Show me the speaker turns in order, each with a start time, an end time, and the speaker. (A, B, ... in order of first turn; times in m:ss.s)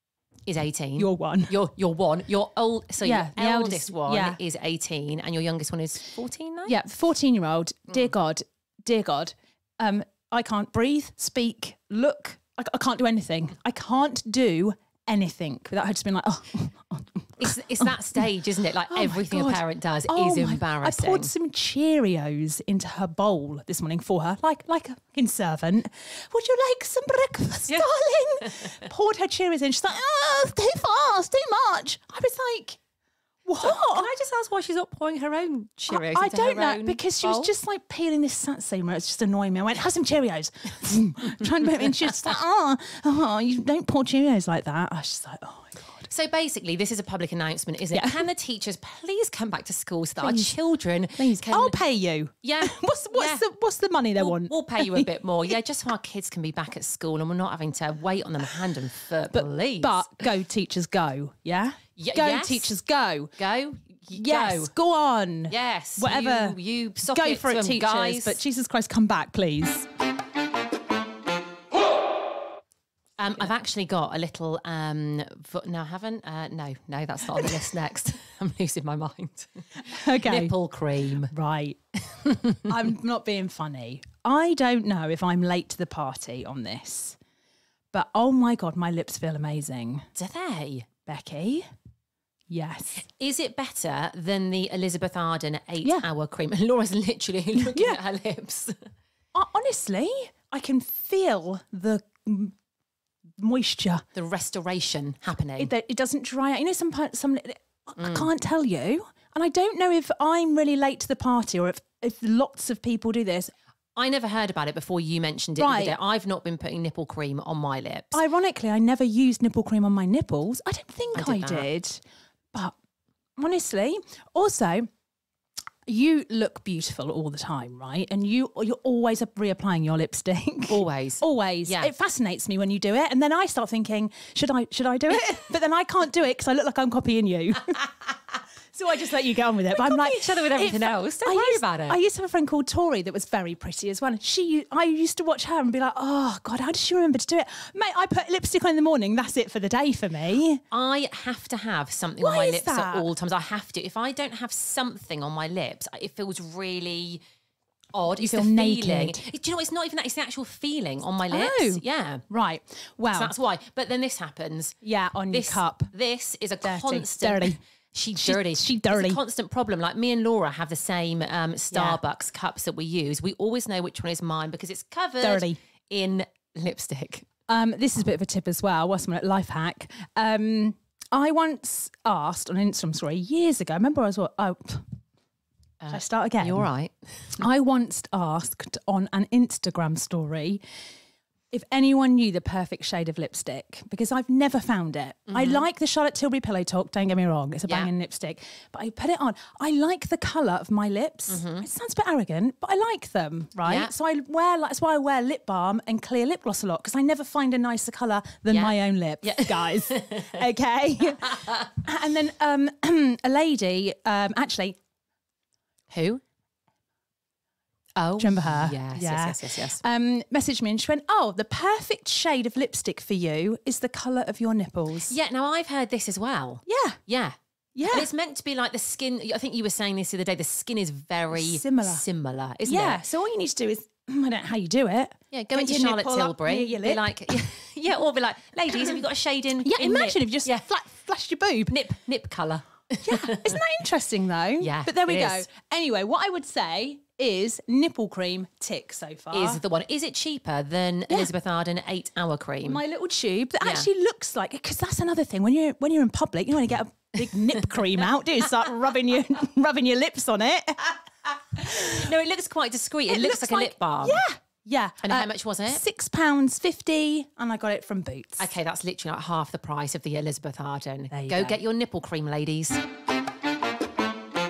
0:00.5-0:06.8 A
0:01.0-0:01.6 B
0:03.0-0:04.4 B
0:06.7-0:18.3 B
0:17.4-0:21.3 A
0:18.9-0:32.8 B
0:28.4-0:28.7 A
0:33.4-0:34.1 B
0:33.6-0:37.5 A
0:35.9-0:46.1 B
0:46.1-0:51.8 A
0:47.9-0:48.3 B
0:50.2-0:50.6 B
0:51.2-0:55.1 B
0:52.4-0:53.4 A
0:54.2-1:00.3 A
0:59.3-1:03.3 B
1:02.0-1:02.7 A
1:03.4-1:04.7 A
1:04.1-1:09.9 B
1:05.5-1:08.4 A
1:13.2-1:21.3 A
1:17.3-1:17.7 B
1:19.8-1:20.5 B
1:21.3-1:21.8 B
1:22.2-1:22.6 A
1:22.7-1:27.2 B
1:27.9-1:30.1 B
1:30.2-1:30.9 A
1:31.1-1:31.7 B
1:32.5-1:33.0 B
1:33.0-1:38.8 A
1:37.6-1:38.0 B
1:39.3-1:42.5 B
1:43.4-1:44.0 B
1:44.2-1:45.7 A
1:45.6-1:53.5 B
1:48.0-1:48.3 A
1:54.0-1:58.2 A
1:55.6-1:56.0 B
1:58.1-2:02.0 B
2:01.1-2:01.7 A
2:03.4-2:04.9 B
2:05.9-2:17.9 B
2:10.7-2:11.9 A
2:18.7-2:30.6 B
2:19.7-2:22.0 A
2:30.7-2:37.2 A
2:32.2-2:33.1 B
2:37.9-2:42.2 A
2:38.2-2:39.2 B
2:41.3-2:43.3 B
2:43.1-2:44.8 A
2:44.8-2:45.9 B
2:45.3-2:57.3 A
2:46.6-2:47.6 B
2:48.2-2:49.2 B
2:51.7-2:52.0 B
2:55.2-2:55.6 B
2:57.5-3:04.9 B
3:05.8-3:07.4 A
3:05.9-3:06.7 B
3:07.4-3:10.6 B
3:11.5-3:34.8 B
3:15.3-3:15.6 A
3:17.7-3:17.9 A
3:21.3-3:21.7 A
3:23.6-3:23.9 A
3:28.5-3:30.4 A
3:35.9-3:36.2 A
3:38.0-3:39.8 A
3:38.2-3:45.1 B
3:45.0-3:47.4 A
3:46.7-3:47.0 B
3:47.8-3:48.1 B
3:47.9-3:53.0 A
3:51.3-3:52.0 B
3:52.7-3:57.3 B
3:55.3-4:00.7 A
3:59.6-4:01.8 B
4:01.7-4:03.6 A
4:03.0-4:09.6 B
4:04.6-4:05.4 A
4:09.3-4:12.8 A
4:12.7-4:21.0 B
4:13.6-4:13.9 A
4:21.5-4:22.1 B
4:21.7-4:24.2 A
4:23.1-4:28.5 B
4:25.0-4:25.8 A
4:28.4-4:32.8 A
4:31.1-4:31.6 B